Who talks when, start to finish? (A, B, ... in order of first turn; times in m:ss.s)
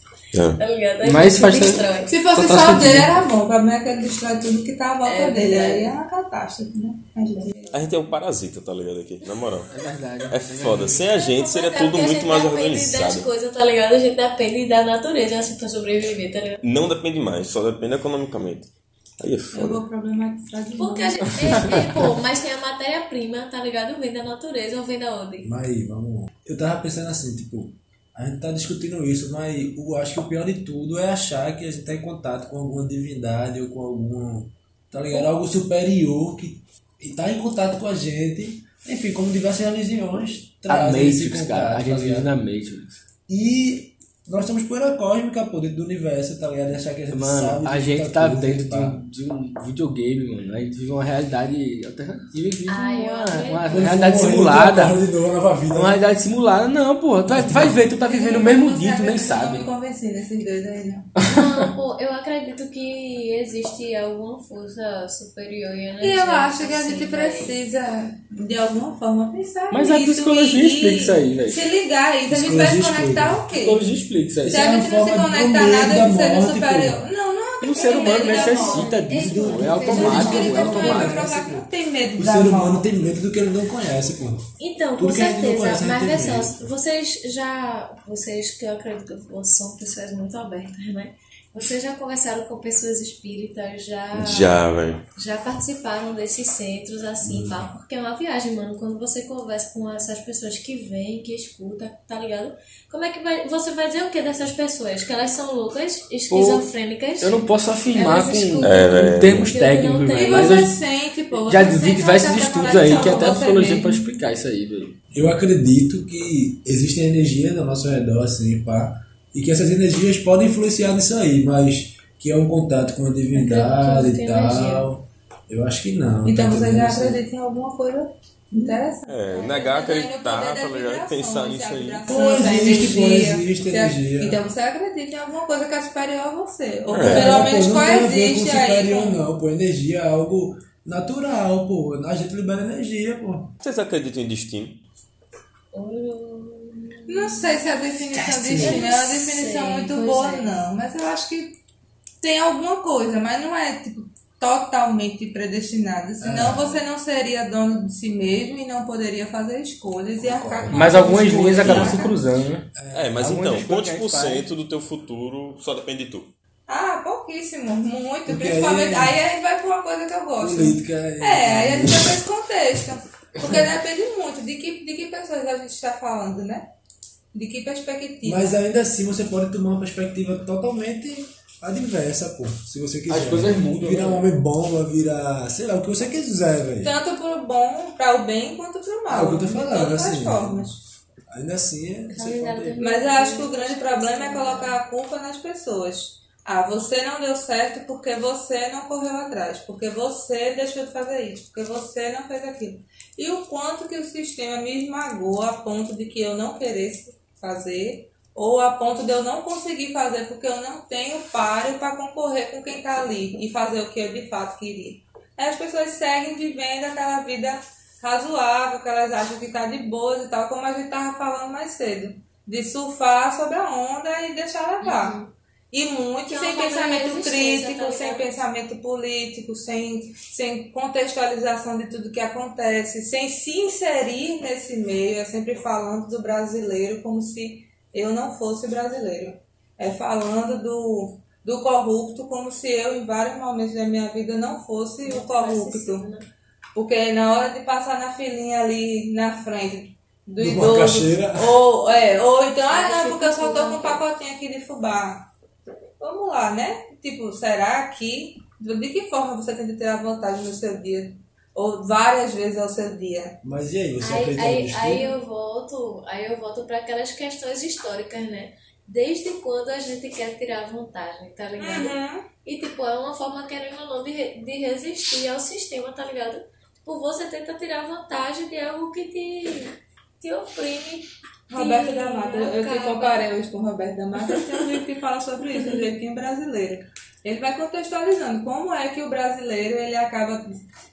0:00.3-0:00.6 A
0:00.6-0:02.2 B
0:01.0-0:03.2 C
0:02.1-0:07.9 D
0:05.0-0:05.9 B
0:07.7-0:09.7 A
0:09.7-0:11.0 C
0:10.3-0:13.3 A
0:11.1-0:16.6 B
0:16.6-0:18.7 A
0:19.2-0:19.8 A
0:19.5-0:21.8 D
0:20.8-0:25.6 B
0:21.4-0:22.0 C
0:25.4-0:42.3 E
0:40.7-0:43.0 C
0:43.3-0:49.0 E
0:47.1-0:55.0 C
0:52.7-0:54.2 B
0:53.7-0:56.0 E
0:55.7-0:59.7 C
0:57.3-0:57.8 E
0:58.0-1:01.1 D
1:01.2-1:01.7 C
1:01.2-1:07.6 B
1:06.0-1:13.9 D
1:09.7-1:11.7 C
1:12.3-1:13.5 E
1:13.5-1:14.6 C
1:14.4-1:17.1 E
1:14.5-1:22.8 D
1:17.6-1:21.3 C
1:17.8-1:20.7 B
1:19.1-1:24.5 E
1:24.6-1:34.6 B
1:25.0-1:26.7 E
1:34.1-1:35.0 A
1:35.2-1:50.7 B
1:37.2-1:37.7 E
1:46.3-1:50.8 C
1:48.6-1:49.5 A
1:50.2-1:54.0 D
1:51.4-1:55.0 C
1:52.7-1:53.4 B
1:55.1-2:07.2 E
2:03.3-2:04.9 B
2:06.2-2:19.2 D
2:09.1-2:12.4 A
2:12.1-2:14.4 E
2:16.9-2:17.5 A
2:17.0-2:23.5 E
2:23.6-2:24.8 A
2:25.7-2:27.7 B
2:27.1-2:31.6 D
2:28.2-2:28.8 E
2:28.5-2:30.6 B
2:32.2-2:42.2 D
2:36.2-2:36.8 E
2:40.2-2:42.0 E
2:40.7-2:44.5 C
2:41.6-2:41.9 A
2:42.8-2:43.3 E
2:42.9-2:46.3 A
2:46.7-2:56.7 D
2:48.3-2:49.2 E
2:50.4-2:52.2 E
2:57.3-2:58.6 D
2:58.2-3:07.0 E
3:03.1-3:04.3 C
3:06.8-3:10.8 D
3:09.1-3:10.8 E
3:11.3-3:12.8 E
3:12.1-3:14.8 B
3:12.8-3:45.2 D
3:44.8-3:45.3 B
3:45.7-4:06.1 D
3:46.3-3:48.4 B
4:05.0-4:06.3 B
4:06.8-4:15.3 D
4:10.4-4:11.6 E
4:12.7-4:14.0 B
4:16.0-4:23.4 D
4:23.4-4:25.1 E
4:24.0-4:43.3 B
4:31.6-4:32.3 D
4:41.5-4:50.6 D